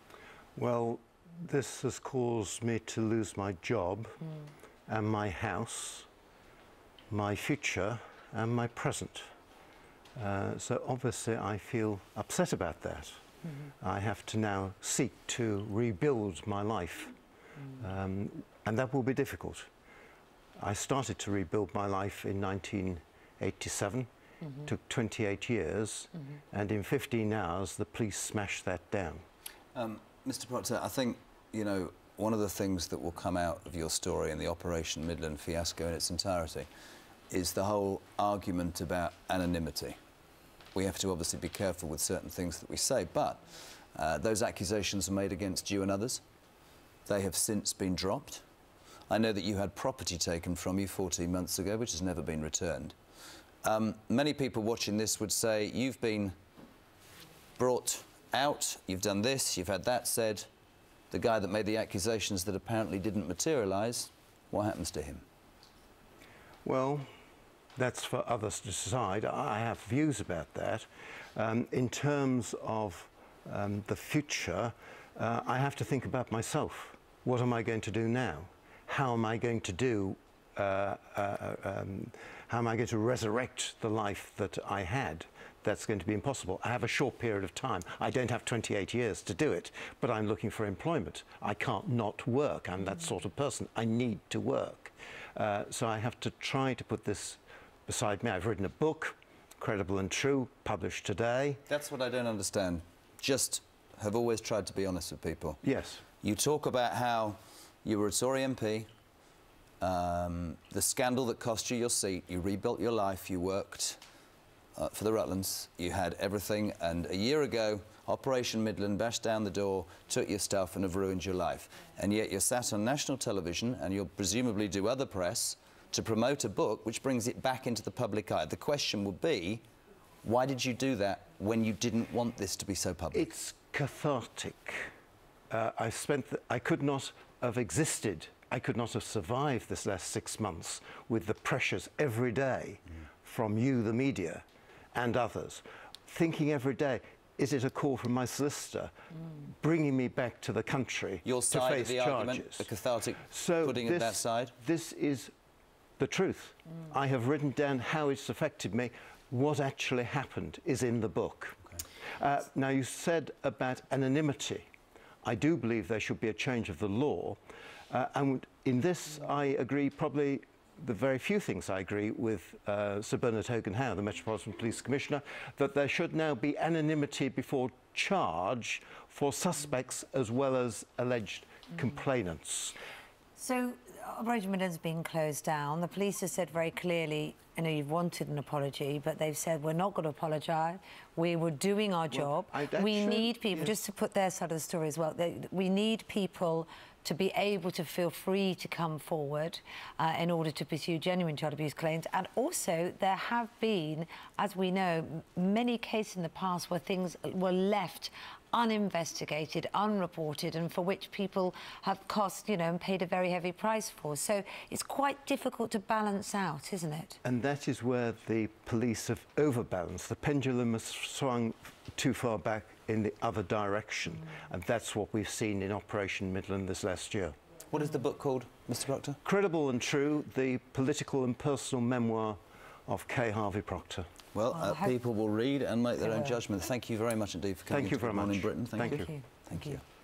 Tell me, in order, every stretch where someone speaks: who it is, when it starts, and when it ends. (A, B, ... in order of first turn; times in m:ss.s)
0:00.6-0:04.2 A
0:04.9-0:06.1 A
0:07.1-0:09.3 A
0:10.1-0:13.2 A
0:13.8-0:17.2 A
0:17.7-0:19.7 A
0:20.6-0:24.1 A
0:24.6-0:29.2 A
0:29.7-0:36.7 B
0:37.3-0:40.0 B
0:40.7-0:46.2 B
0:47.0-0:48.4 B
0:49.1-0:52.9 B
0:53.6-0:56.3 B
0:57.6-1:00.5 B
1:01.1-1:05.2 B
1:06.6-1:07.1 A
1:07.8-1:41.6 A
1:41.7-1:45.6 B
1:45.6-1:46.0 A
1:46.2-1:48.9 B
1:49.8-1:54.0 B
1:54.7-2:09.6 B
2:10.2-2:13.3 B
2:13.1-2:14.9 A
2:15.5-2:28.9 A
2:29.5-2:32.7 A
2:31.2-2:34.5 B
2:33.3-2:35.3 A
2:36.0-2:44.7 A
2:45.2-2:47.4 A
2:47.9-3:02.8 A
3:03.4-3:37.2 C
3:12.1-3:13.8 A
3:37.2-3:47.4 A
3:47.7-3:49.2 B
3:49.2-3:54.1 A
3:54.3-3:59.8 B
3:54.5-3:55.0 C
3:56.0-3:56.4 C
3:57.7-3:59.1 A
3:58.9-3:59.6 C